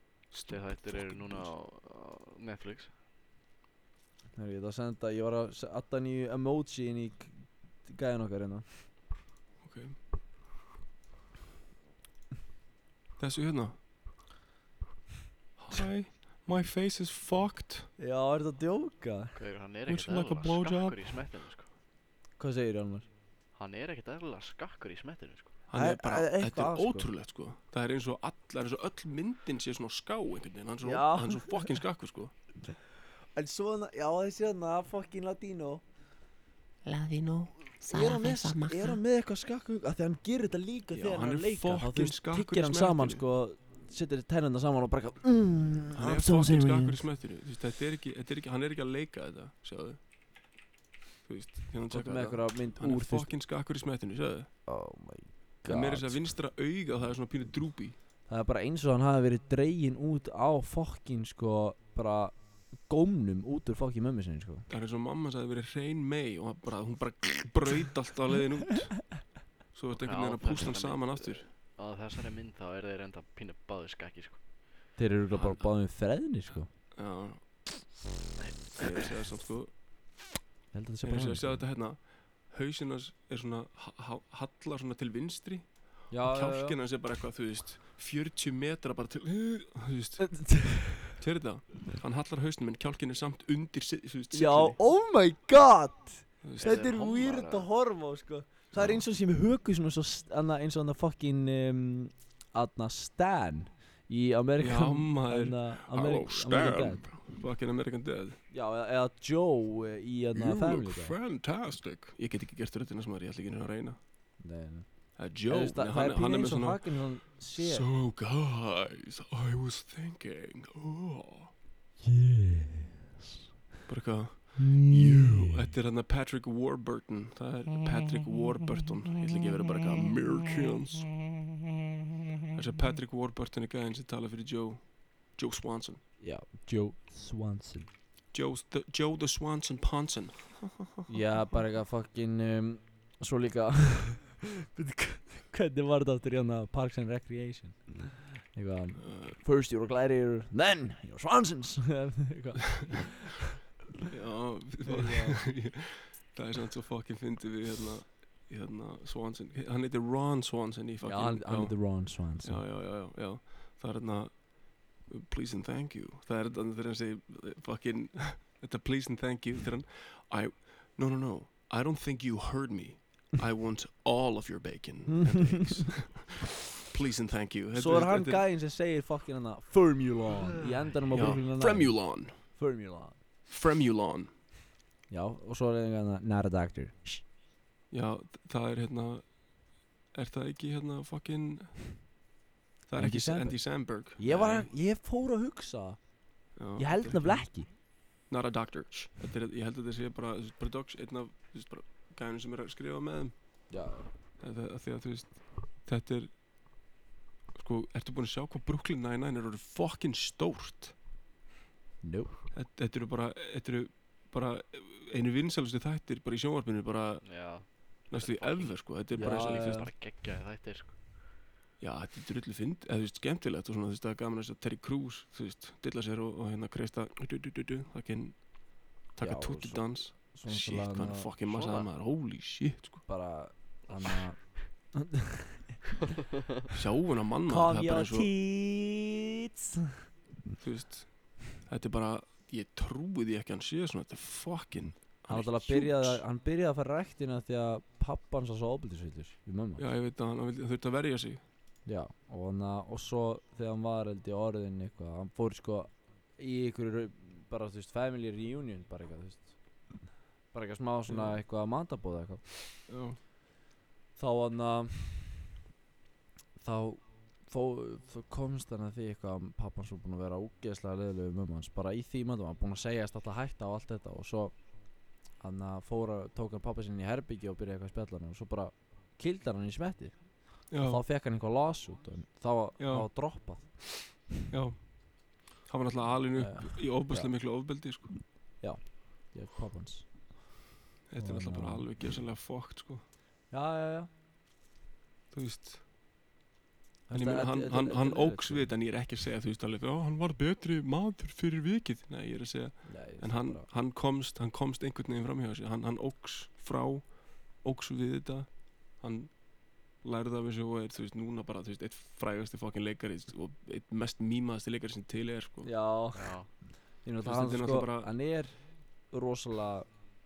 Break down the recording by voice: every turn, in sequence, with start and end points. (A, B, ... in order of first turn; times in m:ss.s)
0:00.3-0:01.5 A
0:00.5-0:02.9 B
0:04.4-0:08.7 C
0:09.6-0:10.0 A
0:13.2-0:13.8 A
0:15.6-0:17.9 A
0:18.0-0:19.4 C
0:19.4-0:21.7 B
0:19.9-0:21.2 A
0:22.4-0:23.1 C
0:23.5-0:25.5 B
0:25.7-0:32.3 A
0:25.7-0:27.1 C
0:30.8-0:31.6 C
0:33.3-0:35.8 C
0:36.8-0:39.0 D
0:37.9-0:47.0 C
0:40.9-0:43.2 A
0:45.9-0:50.0 A
0:51.2-0:54.5 A
0:51.9-0:53.3 C
0:54.6-0:56.3 C
0:55.6-0:58.0 A
0:58.3-1:04.7 C
1:04.7-1:09.2 A
1:09.7-1:11.5 A
1:09.9-1:14.4 B
1:15.0-1:16.7 C
1:15.3-1:15.7 B
1:16.9-1:17.7 A
1:18.4-1:19.1 B
1:18.8-1:19.8 A
1:20.7-1:21.6 C
1:21.0-1:34.8 A
1:26.1-1:26.8 C
1:30.2-1:31.1 C
1:34.3-1:47.1 C
1:36.4-1:36.8 A
1:36.6-1:37.7 B
1:38.7-1:39.0 A
1:44.6-1:48.4 A
1:48.5-1:51.2 C
1:50.3-1:54.0 A
1:54.4-1:57.9 C
1:55.2-2:01.5 A
2:02.0-2:03.1 C
2:03.9-2:11.2 A
2:04.6-2:05.7 C
2:12.5-2:16.0 A
2:16.2-2:17.9 C
2:18.3-2:21.0 A
2:21.1-2:33.4 C
2:29.0-2:29.4 A
2:34.1-2:58.4 A
2:34.8-2:35.4 C
2:41.0-2:42.6 C
2:55.3-2:55.8 C
2:57.7-3:03.2 C
3:01.1-3:02.4 A
3:03.5-3:04.3 A
3:05.1-3:07.2 C
3:07.9-3:09.3 A
3:10.1-3:11.9 A
3:12.9-3:14.7 A
3:13.0-3:16.0 C
3:16.6-3:17.4 A
3:16.7-3:17.7 C
3:18.3-3:23.3 A
3:23.7-3:24.1 C
3:24.4-3:26.3 A
3:27.5-3:30.9 A
3:32.0-3:32.3 C
3:32.5-3:39.9 A
3:37.2-3:41.0 B
3:39.1-3:39.9 C
3:41.8-3:53.0 A
3:49.2-3:51.3 C
3:51.4-3:51.9 B
3:53.1-3:55.7 C
3:56.7-3:58.3 A
3:57.5-3:59.9 C
4:00.6-4:06.2 A
4:05.3-4:09.8 C
4:09.8-4:11.4 A
4:11.8-4:22.5 C
4:21.1-4:21.4 A
4:22.9-4:23.2 A
4:24.2-4:25.5 C
4:26.6-4:34.6 C
4:35.4-4:44.1 C
4:40.7-4:41.0 A
4:42.8-4:43.1 A
4:44.5-4:48.2 A
4:46.4-4:47.3 C
4:48.6-4:50.3 C
4:51.1-4:53.0 A
4:51.2-4:51.9 C
4:53.5-4:54.1 C
4:55.3-4:55.8 A
4:57.1-4:58.7 C
4:57.1-5:15.7 A
5:02.8-5:03.7 C
5:15.6-5:19.9 C
5:16.1-5:16.5 B
5:17.2-5:18.1 A